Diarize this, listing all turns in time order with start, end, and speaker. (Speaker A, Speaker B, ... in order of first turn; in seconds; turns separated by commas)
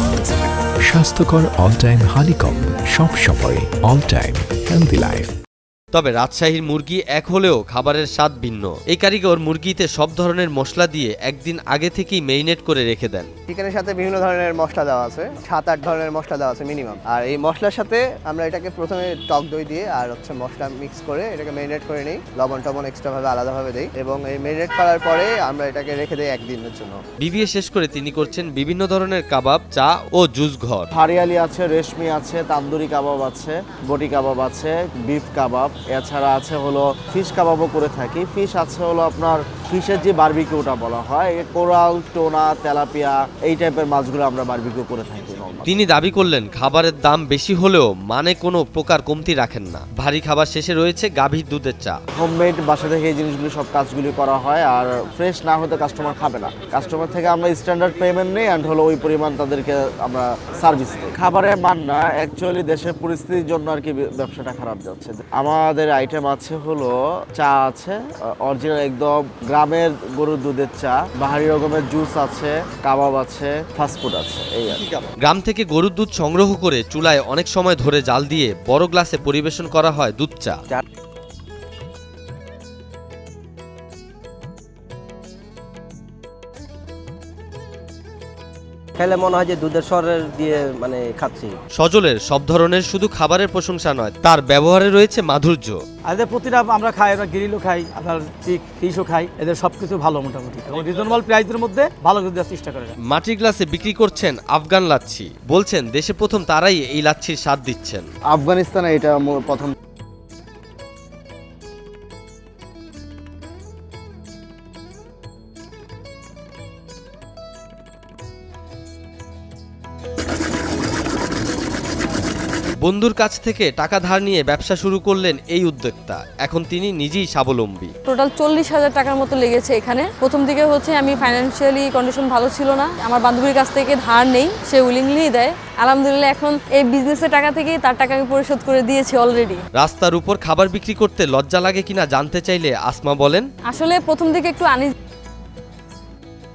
Speaker A: 0.8-5.3, Speaker B: 5.9-13.3, Speaker C: 13.5-27.0, Speaker B: 27.2-30.9, Speaker D: 30.9-45.7, Speaker B: 45.7-52.0, Speaker D: 52.1-74.8, Speaker B: 75.2-80.6, Speaker E: 89.0-91.6, Speaker B: 91.8-95.8, Speaker F: 96.0-102.9, Speaker B: 103.0-108.1, Speaker D: 108.3-109.7, Speaker B: 122.8-127.9, Speaker G: 128.1-139.6, Speaker B: 139.8-143.5, Speaker G: 143.7-144.9